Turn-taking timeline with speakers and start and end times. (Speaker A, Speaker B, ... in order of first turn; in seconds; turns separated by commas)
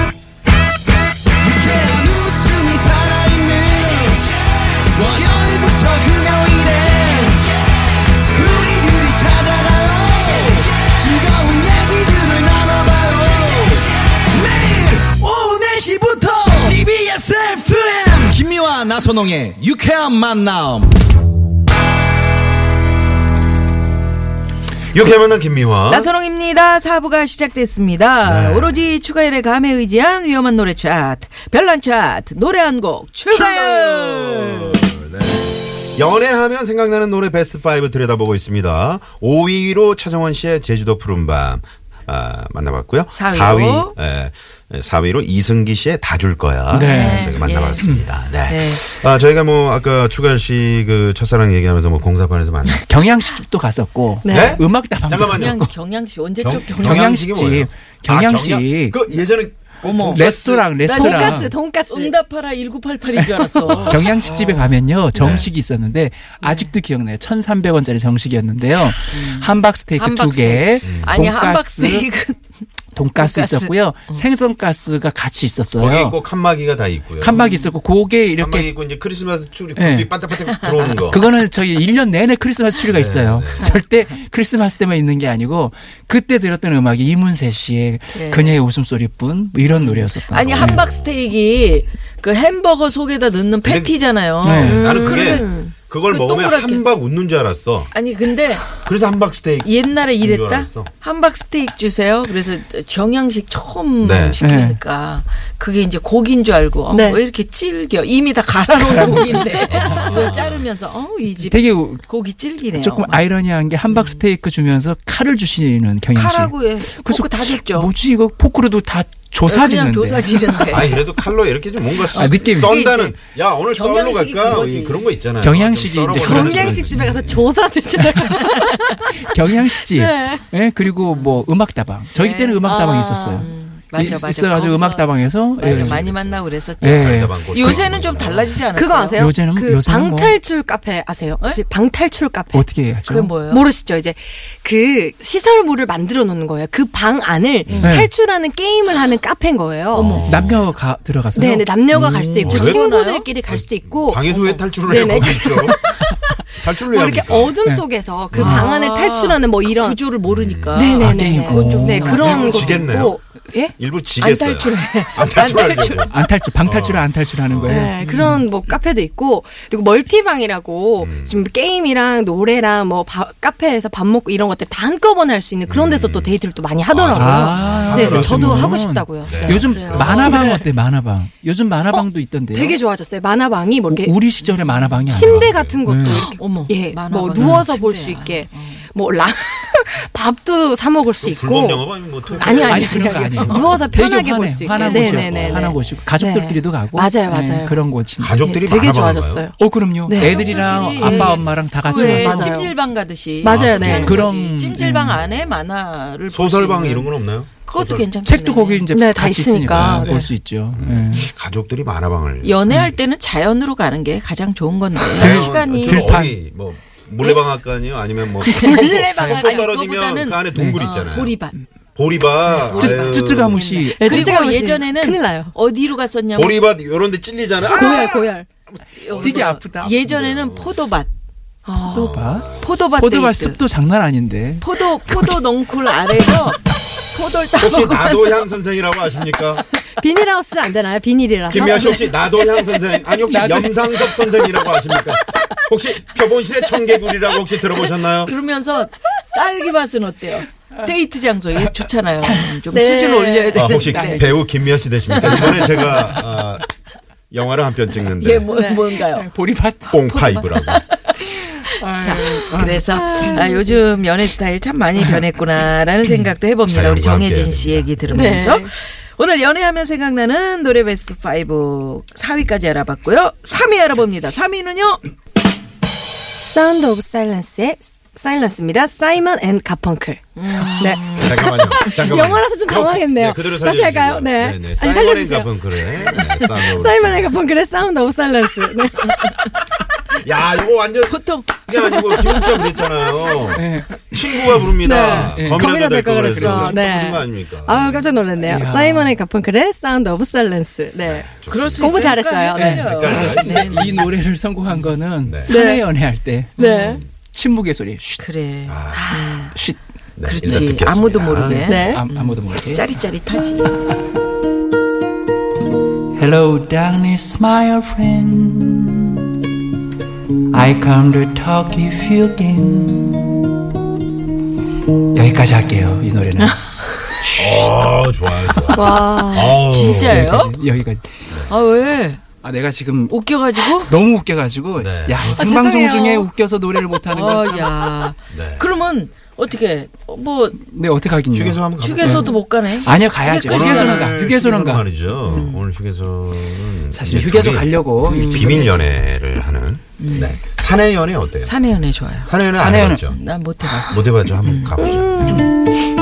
Speaker A: 1.4-4.3, Speaker A: 4.9-7.5, Speaker A: 8.2-20.9, Speaker B: 24.9-26.1, Speaker C: 25.8-34.8, Speaker B: 28.2-28.8, Speaker B: 33.3-52.8, Speaker C: 43.1-43.9, Speaker D: 46.7-48.1, Speaker C: 46.7-47.9, Speaker C: 48.4-48.9, Speaker D: 52.8-55.7, Speaker E: 54.2-54.6, Speaker B: 54.3-55.6, Speaker C: 55.2-57.1, Speaker B: 56.4-60.7, Speaker D: 56.7-59.0, Speaker C: 59.8-64.8, Speaker D: 60.0-61.5, Speaker E: 60.9-62.1, Speaker D: 63.1-72.1, Speaker B: 63.7-64.2, Speaker B: 65.1-65.5, Speaker C: 66.4-66.7, Speaker C: 69.1-72.4, Speaker B: 70.8-71.2, Speaker D: 73.0-76.2, Speaker C: 73.2-74.2, Speaker B: 75.8-77.4, Speaker D: 77.2-78.7, Speaker C: 77.3-77.7, Speaker B: 78.4-81.2, Speaker D: 79.8-80.1, Speaker C: 80.3-81.2, Speaker D: 81.1-90.8, Speaker B: 82.9-83.7, Speaker C: 83.6-83.9, Speaker C: 88.1-88.6, Speaker C: 89.7-95.5, Speaker B: 90.4-91.2, Speaker B: 93.6-94.0, Speaker D: 94.4-94.8, Speaker B: 94.5-97.9, Speaker E: 94.6-95.7, Speaker C: 96.0-96.8, Speaker C: 97.9-98.8, Speaker B: 98.7-100.9, Speaker C: 99.6-113.2, Speaker B: 104.0-104.4, Speaker D: 104.4-104.8, Speaker E: 106.9-107.2, Speaker B: 109.7-110.6, Speaker D: 111.4-120.9, Speaker C: 113.9-114.2, Speaker C: 116.1-117.9, Speaker C: 119.5-121.0, Speaker B: 120.7-127.5, Speaker C: 122.0-123.2, Speaker D: 122.1-122.7, Speaker C: 123.7-125.1, Speaker D: 125.4-127.1, Speaker E: 126.2-129.3, Speaker D: 127.9-136.0, Speaker E: 129.9-130.4, Speaker C: 131.1-131.5, Speaker C: 132.1-132.7, Speaker E: 132.6-133.5, Speaker C: 133.3-139.4, Speaker B: 135.6-138.6, Speaker D: 136.8-137.8, Speaker E: 138.7-142.7, Speaker D: 139.2-140.4, Speaker D: 142.5-143.4, Speaker C: 143.1-143.7, Speaker E: 143.5-150.2, Speaker B: 147.7-147.9, Speaker D: 147.8-148.1, Speaker C: 149.9-150.4, Speaker B: 149.9-150.7, Speaker D: 150.1-152.6, Speaker E: 151.3-156.2, Speaker B: 152.4-152.8, Speaker C: 152.4-153.3, Speaker B: 153.4-156.0, Speaker C: 154.3-154.6, Speaker B: 156.6-157.6, Speaker E: 156.8-160.0, Speaker D: 157.6-158.6, Speaker B: 158.3-158.6, Speaker C: 158.4-162.7, Speaker B: 160.2-160.9, Speaker E: 160.7-163.7, Speaker D: 161.0-162.8, Speaker B: 162.1-163.2, Speaker B: 163.8-167.9, Speaker C: 164.2-166.2, Speaker D: 166.1-168.4, Speaker E: 167.6-180.7, Speaker C: 168.0-168.4, Speaker B: 171.0-171.4, Speaker B: 175.7-176.4, Speaker B: 176.9-180.3, Speaker D: 177.1-182.8, Speaker C: 179.7-180.2, Speaker E: 181.9-184.2, Speaker D: 183.9-186.3, Speaker C: 184.4-184.9, Speaker E: 185.0-197.8, Speaker B: 185.1-185.8, Speaker C: 186.1-188.9, Speaker D: 187.4-187.7, Speaker B: 191.2-194.0, Speaker D: 192.6-198.5, Speaker C: 194.8-195.2, Speaker B: 195.1-196.0, Speaker B: 198.2-199.5, Speaker E: 198.4-202.7, Speaker D: 199.6-202.6, Speaker C: 200.1-208.9, Speaker E: 203.4-204.2, Speaker B: 203.4-204.2, Speaker D: 203.9-205.2, Speaker B: 205.2-205.6, Speaker B: 206.3-208.1, Speaker D: 208.2-211.3, Speaker E: 208.9-210.2, Speaker B: 209.8-212.6, Speaker C: 212.4-216.1, Speaker B: 215.2-221.4, Speaker D: 215.2-216.4, Speaker C: 218.4-218.8, Speaker E: 218.5-219.7, Speaker D: 219.1-219.5, Speaker C: 219.4-221.6, Speaker D: 220.5-220.8, Speaker B: 221.9-223.6, Speaker C: 222.5-226.6, Speaker D: 222.7-224.5, Speaker E: 224.0-225.5, Speaker B: 226.3-228.3, Speaker E: 227.7-228.4, Speaker C: 229.0-231.1, Speaker B: 229.1-230.8, Speaker D: 229.2-229.9, Speaker E: 231.7-232.2, Speaker D: 231.8-235.4, Speaker B: 232.0-232.7, Speaker C: 232.6-233.6, Speaker C: 234.6-238.5, Speaker B: 237.6-239.6, Speaker E: 240.0-242.2, Speaker B: 241.5-248.3, Speaker D: 243.2-244.4, Speaker C: 248.2-254.4, Speaker E: 252.7-253.7, Speaker B: 253.5-256.6, Speaker D: 253.8-254.4, Speaker C: 255.1-256.1, Speaker D: 255.2-256.2, Speaker B: 257.3-258.5, Speaker C: 258.1-259.3, Speaker E: 258.5-258.9, Speaker D: 259.0-260.1, Speaker B: 259.9-260.8, Speaker C: 260.1-261.1, Speaker D: 261.2-263.4, Speaker C: 261.9-275.0, Speaker E: 262.9-263.8, Speaker B: 266.7-268.4, Speaker E: 268.1-268.7, Speaker E: 276.4-289.5, Speaker C: 280.4-281.3, Speaker B: 281.2-287.4, Speaker B: 290.1-298.0, Speaker C: 291.1-291.7, Speaker E: 291.9-293.4, Speaker D: 293.5-295.7, Speaker E: 294.8-303.1, Speaker D: 296.3-296.8, Speaker D: 298.4-299.1, Speaker B: 301.0-302.2, Speaker C: 301.5-304.1, Speaker D: 302.6-308.2, Speaker B: 302.8-304.1, Speaker B: 305.2-305.5, Speaker E: 305.5-305.9, Speaker C: 306.6-307.0, Speaker E: 306.6-307.0, Speaker C: 308.2-309.6, Speaker B: 308.7-309.1, Speaker E: 308.9-309.5, Speaker D: 309.5-309.8, Speaker B: 310.2-311.7, Speaker C: 310.2-313.7, Speaker E: 311.6-312.0, Speaker D: 311.8-312.8, Speaker D: 316.1-319.2, Speaker D: 320.5-323.4, Speaker D: 325.1-326.6, Speaker D: 327.2-327.7, Speaker B: 327.4-330.4, Speaker E: 328.7-329.6, Speaker C: 329.4-330.6, Speaker D: 330.0-331.1, Speaker C: 331.5-332.2, Speaker D: 332.4-333.1, Speaker C: 333.1-333.9, Speaker D: 333.8-337.9, Speaker B: 334.8-335.4, Speaker E: 335.3-336.3, Speaker C: 337.0-340.6, Speaker B: 338.3-338.7, Speaker D: 340.6-344.9, Speaker B: 341.3-342.3, Speaker C: 341.8-344.2, Speaker B: 343.4-351.5, Speaker C: 345.2-345.6, Speaker D: 346.9-348.7, Speaker C: 348.0-348.8, Speaker C: 350.0-350.4, Speaker C: 351.4-352.4, Speaker B: 352.2-353.2, Speaker D: 352.5-353.0, Speaker C: 353.1-354.8, Speaker B: 353.9-355.4